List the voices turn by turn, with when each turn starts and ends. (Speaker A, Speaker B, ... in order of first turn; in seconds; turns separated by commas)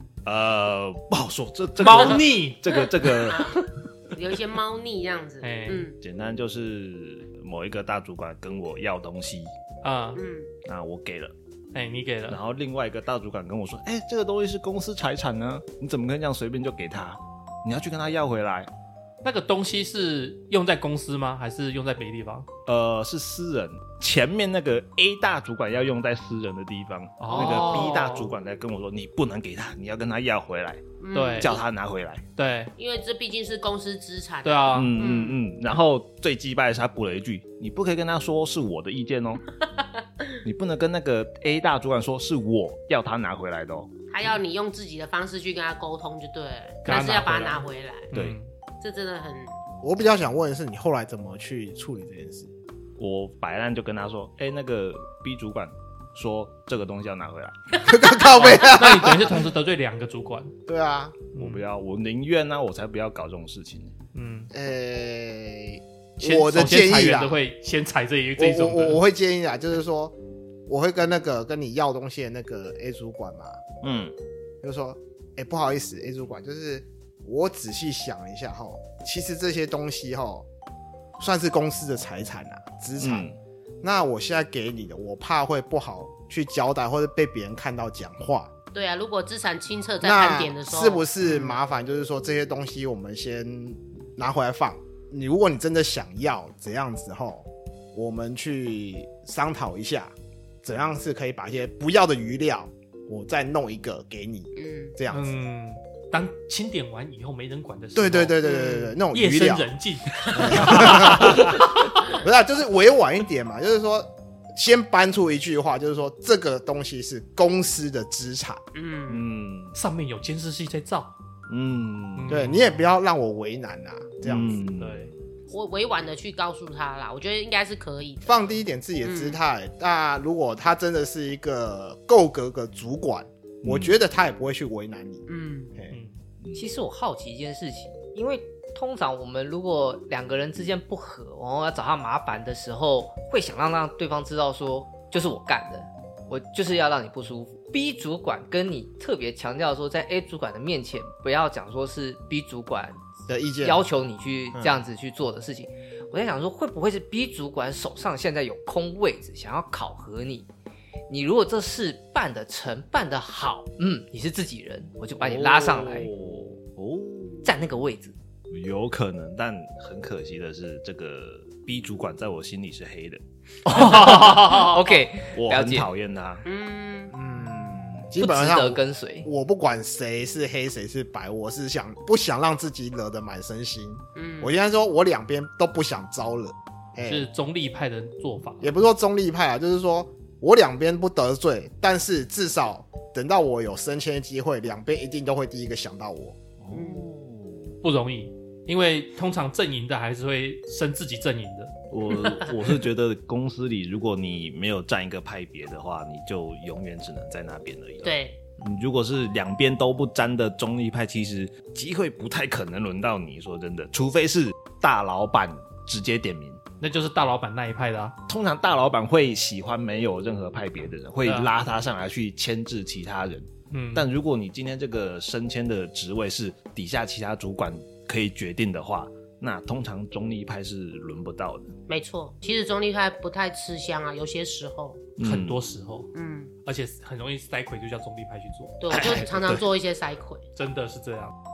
Speaker A: 0.2-3.5, Speaker B: 1.8-2.8, Speaker C: 2.7-6.0, Speaker B: 5.4-5.9, Speaker A: 6.0-9.5, Speaker B: 9.8-10.2, Speaker C: 10.2-10.5, Speaker A: 10.7-11.3, Speaker B: 11.7-12.4, Speaker A: 12.3-18.7, Speaker B: 19.2-22.5, Speaker A: 22.7-30.8, Speaker B: 27.2-28.3, Speaker C: 27.3-28.0, Speaker C: 31.0-31.6, Speaker B: 31.1-31.5, Speaker A: 31.4-32.2, Speaker B: 32.4-32.7, Speaker C: 32.8-35.4, Speaker B: 34.4-34.9, Speaker A: 34.7-39.4, Speaker A: 40.4-43.9, Speaker C: 44.1-48.1, Speaker B: 46.9-48.5, Speaker A: 48.1-48.4, Speaker C: 48.8-49.5, Speaker D: 49.8-52.5, Speaker A: 53.0-57.5, Speaker C: 57.7-58.7, Speaker D: 57.9-59.4, Speaker B: 58.3-60.5, Speaker D: 60.7-61.2, Speaker B: 61.4-61.6, Speaker A: 61.4-64.0, Speaker B: 64.2-64.5, Speaker D: 64.5-67.4, Speaker B: 66.2-69.0, Speaker D: 68.4-70.2, Speaker D: 70.7-73.6, Speaker A: 73.8-74.1, Speaker D: 74.6-80.5, Speaker D: 81.2-83.3, Speaker A: 83.0-83.4, Speaker D: 83.8-88.5, Speaker C: 88.7-91.6, Speaker D: 90.0-105.4, Speaker C: 104.6-105.0, Speaker B: 105.1-108.4, Speaker D: 108.0-109.7, Speaker C: 108.4-109.0, Speaker B: 109.1-112.2, Speaker C: 110.3-110.8, Speaker D: 110.3-118.6, Speaker A: 111.2-111.6, Speaker C: 118.7-119.3, Speaker A: 119.1-119.8, Speaker B: 119.8-121.1, Speaker A: 121.5-122.4, Speaker B: 122.2-122.8, Speaker D: 122.3-124.7, Speaker A: 124.2-125.2, Speaker B: 124.8-125.1, Speaker C: 125.5-128.4, Speaker D: 128.3-135.9, Speaker C: 129.0-129.4, Speaker A: 133.6-134.0, Speaker C: 135.3-135.7, Speaker E: 136.5-153.1, Speaker D: 153.3-153.8, Speaker E: 153.6-160.5, Speaker E: 161.1-166.1, Speaker A: 165.2-167.5, Speaker E: 167.4-168.2, Speaker A: 168.5-174.8, Speaker E: 173.7-175.9, Speaker B: 173.7-174.7, Speaker A: 175.3-176.4, Speaker C: 176.4-177.2, Speaker D: 177.1-187.3, Speaker E: 178.2-179.3, Speaker C: 184.2-184.5, Speaker B: 187.0-188.7, Speaker D: 188.6-196.4, Speaker A: 196.6-197.8, Speaker C: 196.7-197.1, Speaker B: 197.8-201.7, Speaker A: 201.9-216.6, Speaker C: 202.2-202.5, Speaker C: 208.0-208.4, Speaker B: 216.8-218.2, Speaker A: 218.3-231.7, Speaker B: 221.2-221.5, Speaker B: 223.7-224.1, Speaker C: 231.9-235.1, Speaker A: 235.2-235.6, Speaker B: 235.2-236.1, Speaker C: 236.1-236.5, Speaker B: 236.7-239.2, Speaker C: 238.8-240.4, Speaker A: 238.9-239.6, Speaker B: 240.6-241.3